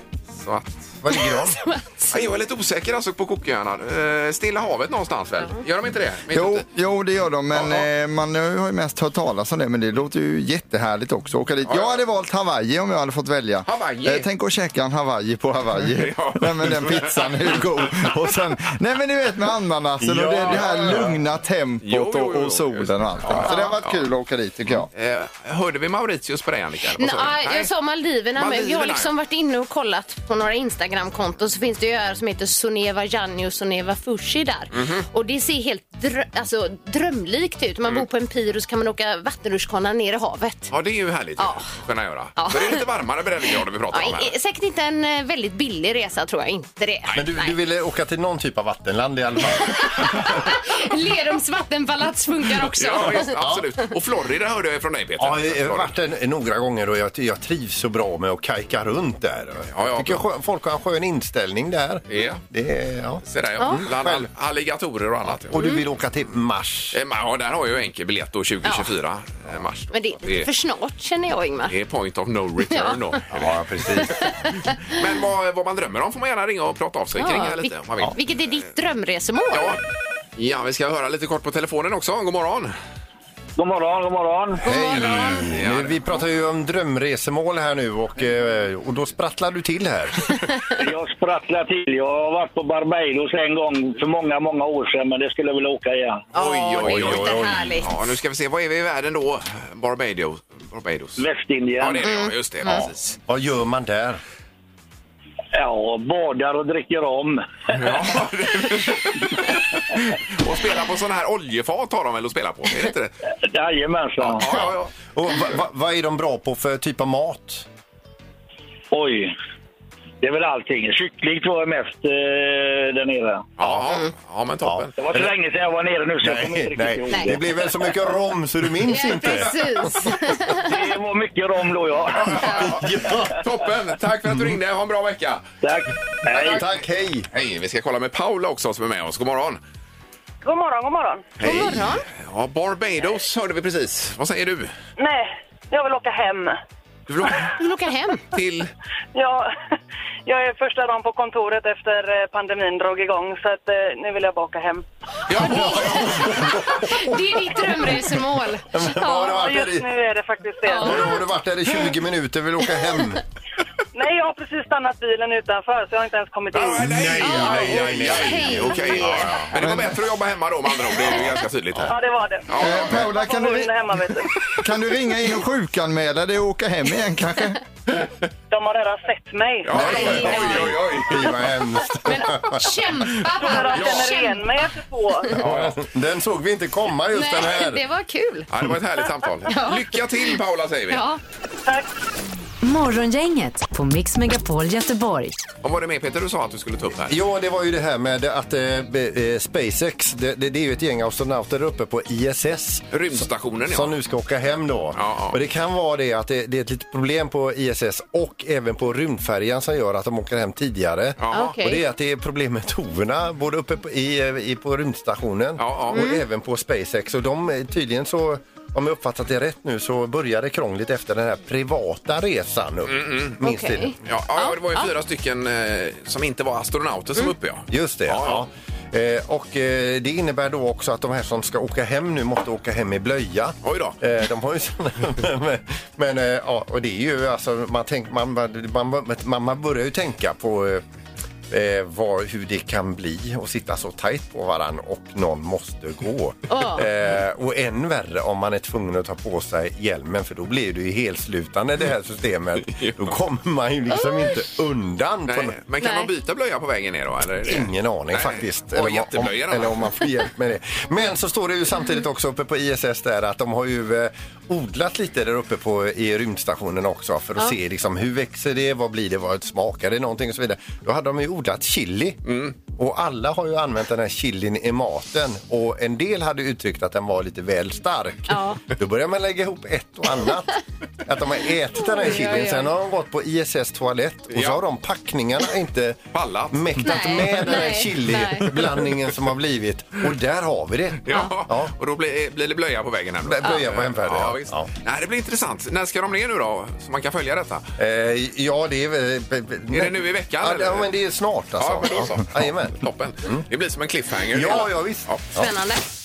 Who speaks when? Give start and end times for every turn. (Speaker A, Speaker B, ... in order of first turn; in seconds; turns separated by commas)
Speaker A: 0.3-0.9, Speaker B: 1.0-1.6, Speaker C: 1.1-2.2, Speaker A: 2.1-6.6, Speaker D: 6.3-24.9, Speaker A: 7.5-7.8, Speaker A: 11.7-12.0, Speaker A: 13.6-14.3, Speaker A: 15.8-18.1, Speaker B: 20.0-21.2, Speaker A: 21.8-24.1, Speaker C: 23.4-23.7, Speaker A: 24.9-27.7, Speaker C: 27.0-40.7, Speaker A: 28.4-29.1, Speaker A: 34.7-35.0, Speaker A: 40.7-44.3, Speaker C: 41.4-41.6, Speaker C: 42.4-42.8, Speaker C: 43.9-47.5, Speaker B: 47.1-50.5, Speaker C: 49.7-53.3, Speaker A: 52.6-55.9, Speaker B: 53.2-53.6, Speaker B: 55.2-64.3, Speaker A: 59.7-60.2, Speaker A: 62.1-62.4, Speaker A: 63.2-65.6, Speaker C: 63.6-63.8, Speaker B: 65.4-67.0, Speaker C: 65.5-65.8, Speaker A: 66.9-70.5, Speaker C: 68.6-68.9, Speaker C: 69.9-71.7, Speaker A: 71.7-74.0, Speaker C: 72.7-73.2, Speaker B: 73.3-74.4, Speaker C: 74.1-74.8, Speaker A: 74.9-78.6, Speaker C: 77.2-79.8, Speaker A: 79.5-79.8, Speaker A: 80.4-82.7, Speaker E: 83.6-84.6, Speaker B: 84.6-90.7, Speaker C: 84.6-85.5, Speaker A: 85.0-86.0, Speaker E: 90.8-96.2, Speaker A: 96.3-101.2, Speaker C: 96.3-97.9, Speaker B: 96.8-97.8, Speaker E: 101.2-102.1, Speaker A: 101.8-103.2, Speaker C: 102.0-102.9, Speaker B: 103.3-104.2, Speaker E: 105.5-108.0, Speaker A: 107.7-113.1, Speaker E: 113.5-114.4, Speaker A: 114.2-114.9, Speaker B: 114.5-117.6, Speaker E: 118.9-119.3, Speaker E: 120.2-123.4, Speaker A: 123.6-124.9, Speaker B: 124.6-125.3, Speaker E: 125.0-127.9, Speaker B: 126.2-129.7, Speaker C: 128.8-130.7, Speaker E: 130.6-132.6, Speaker A: 132.1-135.4, Speaker B: 132.5-133.4, Speaker B: 134.3-134.6, Speaker E: 135.6-136.6, Speaker B: 136.3-137.3, Speaker A: 136.3-136.6, Speaker A: 137.3-139.6, Speaker F: 140.4-141.3, Speaker A: 141.4-144.7, Speaker C: 141.4-142.0, Speaker F: 145.0-146.5, Speaker A: 147.1-147.5, Speaker C: 147.5-148.3, Speaker A: 148.3-148.7, Speaker F: 149.1-149.5, Speaker F: 150.2-154.8, Speaker A: 155.3-156.5, Speaker C: 155.4-159.3, Speaker B: 155.4-159.9, Speaker F: 159.0-161.2, Speaker C: 160.7-161.2, Speaker B: 160.8-163.2, Speaker F: 163.9-166.9, Speaker A: 166.5-173.1, Speaker B: 166.7-169.4, Speaker C: 167.2-169.4, Speaker D: 169.6-169.9, Speaker F: 171.9-174.3, Speaker D: 172.6-173.9, Speaker D: 174.5-177.6, Speaker F: 178.5-179.8, Speaker A: 179.6-181.4, Speaker C: 179.7-181.1, Speaker B: 179.8-183.2, Speaker C: 182.0-184.4, Speaker F: 183.3-185.4, Speaker A: 185.3-185.8, Speaker B: 185.3-187.8, Speaker C: 187.1-188.5, Speaker A: 188.5-191.0, Speaker C: 189.5-190.3, Speaker C: 190.9-191.2, Speaker F: 191.6-191.9, Speaker G: 192.6-195.4, Speaker A: 195.6-197.2, Speaker B: 197.1-202.9, Speaker A: 202.9-203.9, Speaker B: 203.7-223.9, Speaker A: 204.9-205.4, Speaker A: 211.2-211.6, Speaker C: 211.3-211.8, Speaker A: 215.6-216.0, Speaker C: 215.9-216.2, Speaker A: 222.8-223.4, Speaker C: 223.4-224.9, Speaker A: 224.0-228.4, Speaker B: 227.7-240.8, Speaker A: 233.6-234.0, Speaker B: 241.5-255.6, Speaker C: 246.5-246.9, Speaker A: 252.6-253.1, Speaker A: 255.3-259.9, Speaker C: 255.8-256.1, Speaker B: 257.4-291.7, Speaker A: 272.2-272.5, Speaker C: 278.3-278.6, Speaker C: 281.8-282.7, Speaker A: 284.3-284.6, Speaker A: 286.1-287.3, Speaker C: 286.8-288.6, Speaker A: 291.0-297.6, Speaker B: 293.2-294.7, Speaker B: 297.8-303.5, Speaker A: 299.7-300.9, Speaker A: 301.6-305.2, Speaker B: 304.3-305.5, Speaker C: 305.4-305.9